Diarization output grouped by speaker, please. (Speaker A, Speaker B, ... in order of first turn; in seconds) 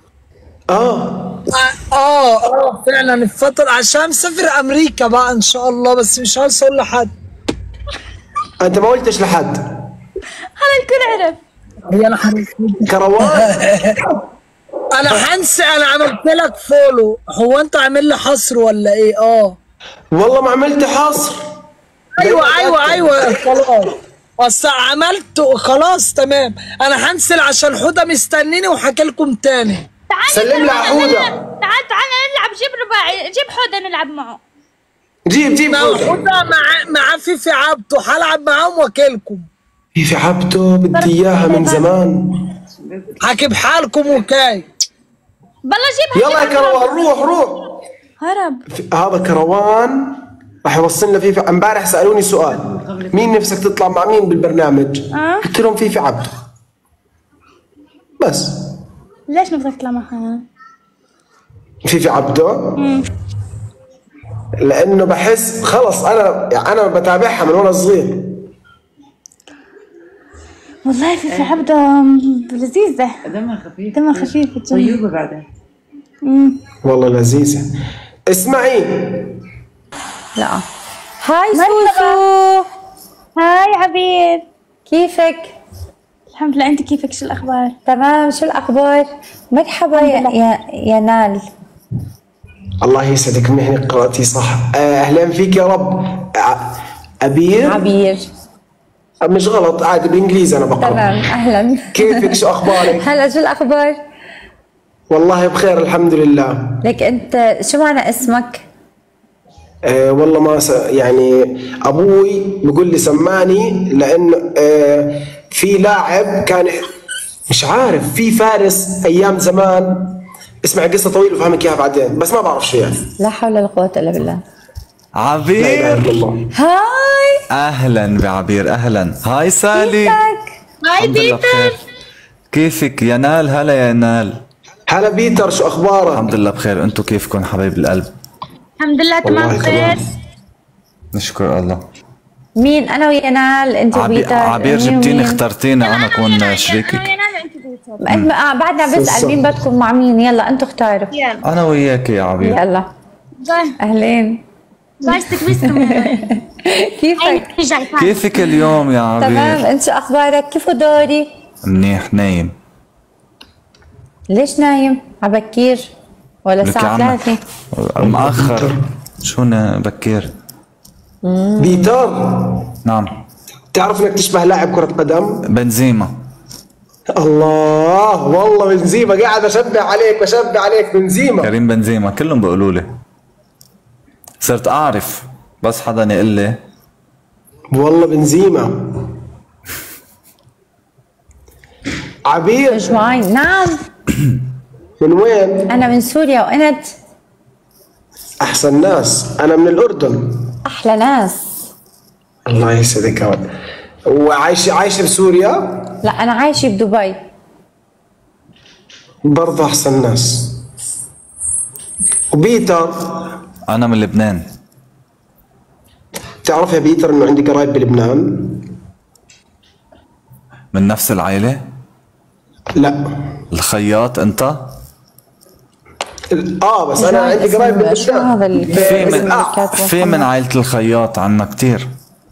Speaker A: 0.7-1.4, 8.6-9.6, 12.9-13.5, 20.1-21.4, 22.2-23.6, 30.3-31.4, 35.3-36.1, 40.0-42.3, 46.1-47.6, 48.7-56.3, 58.2-58.5, 61.8-62.8, 64.6-68.3, 76.8-77.7, 78.3-79.2, 92.8-96.7, 97.2-97.8, 99.2-101.2, 101.9-103.0, 105.1-106.7, 109.9-116.9, 117.5-123.1, 125.6-126.4, 134.9-136.3, 139.2-140.0, 148.8-149.6, 168.0-168.7, 171.6-172.6, 173.7-175.4, 177.1-181.5, 187.7-188.9, 192.2-193.0, 195.0-195.7, 198.4-200.5, 202.4-203.4, 204.1-205.7, 209.3-210.6, 212.3-213.1, 216.4-218.6, 222.8-223.0, 226.3-229.6
Speaker B: 1.5-7.1, 11.9-14.0, 14.9-19.6, 22.2-29.9, 35.7-39.5, 43.2-44.6
Speaker C: 10.6-11.4, 30.1-34.4, 40.9-41.9, 45.7-47.3, 48.2-48.6, 55.1-55.4, 59.3-60.4, 62.8-63.0, 70.8-73.2, 73.9-75.0, 76.2-76.6, 81.5-82.2, 83.3-84.4, 86.3-87.7, 89.9-90.3, 130.8-131.7, 138.8-140.0, 145.8-148.0, 151.1-151.4, 153.4-153.7, 155.0-156.3, 157.2-158.6
Speaker D: 42.8-43.3, 52.5-53.5, 71.3-71.6, 73.2-75.4
Speaker E: 80.4-80.6, 81.2-82.2, 84.9-85.5, 87.9-91.4, 97.6-98.2, 100.8-102.3, 102.8-104.0, 106.8-108.6, 123.2-124.4, 126.6-127.3, 129.8-130.5, 142.6-145.4, 148.1-151.1, 152.4-152.9, 153.8-154.4, 155.8-157.4, 159.2-161.3, 164.3-165.9, 166.4-167.4, 171.2-171.9, 192.7-193.8, 195.7-196.9, 200.7-201.4, 206.0-207.2, 227.0-230.2
Speaker F: 125.2-126.0, 127.5-130.2, 131.0-131.7, 132.5-134.4, 136.1-138.1, 141.1-141.8, 143.9-147.1, 151.4-152.7, 158.0-159.6, 161.6-162.5, 166.6-170.3, 172.8-173.1, 175.5-176.2, 181.4-182.9, 184.4-186.6, 213.7-214.5, 220.7-221.6, 223.5-224.7, 228.7-231.9